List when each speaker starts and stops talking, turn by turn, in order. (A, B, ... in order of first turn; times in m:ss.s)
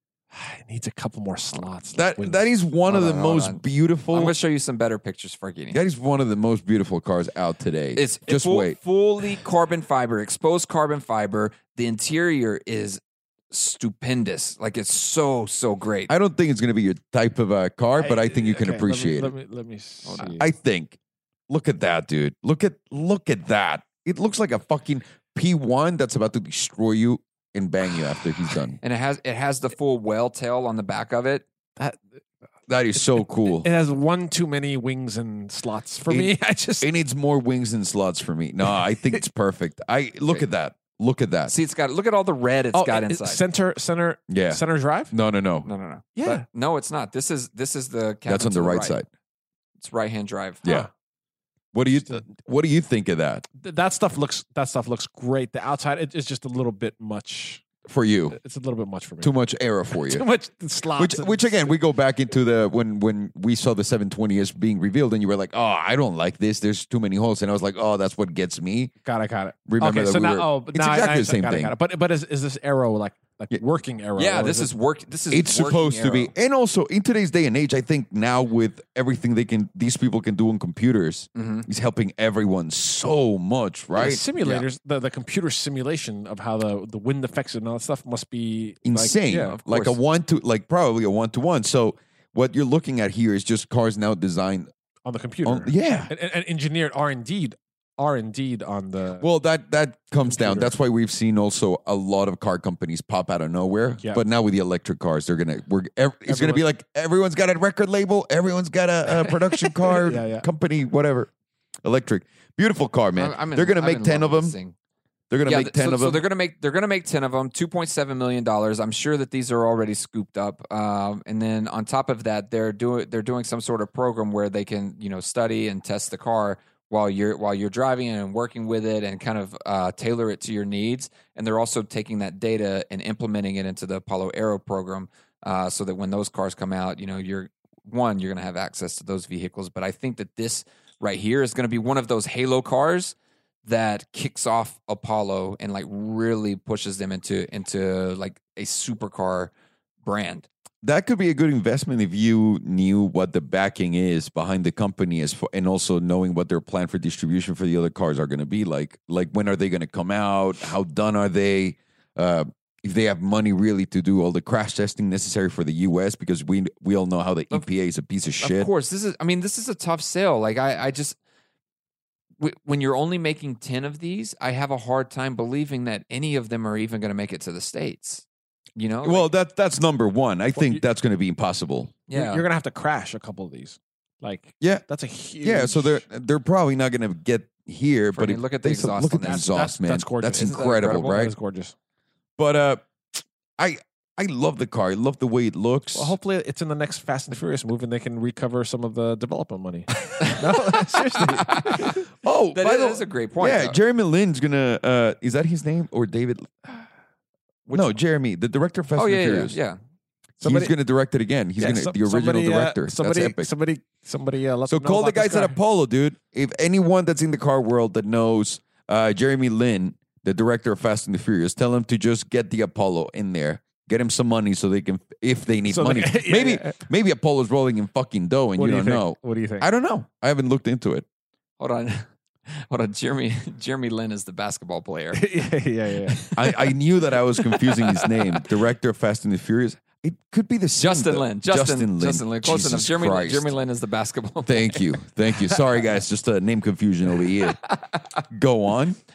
0:00.3-0:02.5 A
0:02.0-0:04.4 B
0:02.9-0:05.8 C
0:05.7-0:08.8 B
0:08.0-0:13.0 C
0:13.5-0:16.1 C
0:16.1-0:19.3 B
0:18.0-0:20.5 A
0:20.0-0:20.4 C
0:20.4-0:21.0 B
0:21.5-0:28.8 B
0:28.8-0:31.4 C
0:32.7-0:33.7 B
0:33.4-0:36.9 A
0:36.1-0:41.5 B
0:41.5-0:43.4 C
0:42.7-0:45.1 A
0:44.3-0:45.7 B
0:45.6-0:49.0 C
0:46.2-0:46.4 A
0:48.3-0:49.1 B
0:49.8-0:50.6 C
0:51.7-0:53.4 B
0:53.6-0:57.6 A
0:57.9-0:58.4 B
0:58.3-0:59.3 A
0:59.2-1:00.2 B
0:59.9-1:01.7 A
1:01.0-1:08.9 B
1:09.0-1:14.7 A
1:09.7-1:11.7 B
1:14.2-1:16.3 C
1:15.3-1:24.2 B
1:21.4-1:21.7 C
1:24.0-1:29.6 A
1:28.8-1:34.7 B
1:29.5-1:30.0 C
1:35.0-1:39.3 A
1:35.4-1:36.1 B
1:39.2-1:51.3 B
1:40.3-1:40.7 A
1:46.3-1:46.6 A
1:49.2-1:50.5 A
1:51.8-1:54.6 B
1:53.2-1:54.7 C
1:55.3-1:56.2 B
1:55.5-2:29.5 C
2:30.0-2:30.5 C
2:30.8-2:48.7 B
2:48.4-2:51.2 C
2:52.4-2:58.2 C
2:58.8-2:59.3 C
2:59.0-3:01.9 B
3:00.6-3:00.8 A
3:02.1-3:02.4 C
3:02.1-3:06.0 A
3:05.4-3:11.3 B
3:08.1-3:09.5 C
3:09.2-3:11.8 A
3:10.3-3:11.3 C
3:12.4-3:16.2 B
3:15.9-3:22.0 A
3:20.2-3:20.6 C
3:21.1-3:22.0 C
3:21.7-3:26.8 B
3:22.5-3:23.8 C
3:27.7-3:27.9 C
3:27.7-3:29.6 B
3:29.0-3:29.8 C
3:30.4-3:30.7 A
3:30.4-3:33.5 B
3:31.6-3:35.6 A
3:34.7-3:51.1 B
3:45.7-3:46.8 A
3:48.6-3:49.7 A
3:51.6-3:55.4 C
3:55.1-3:56.3 A
3:56.1-3:56.7 C
3:56.3-4:03.5 B
3:57.4-3:58.4 C
4:00.8-4:05.6 C
4:04.4-4:07.6 B
4:08.3-4:09.0 B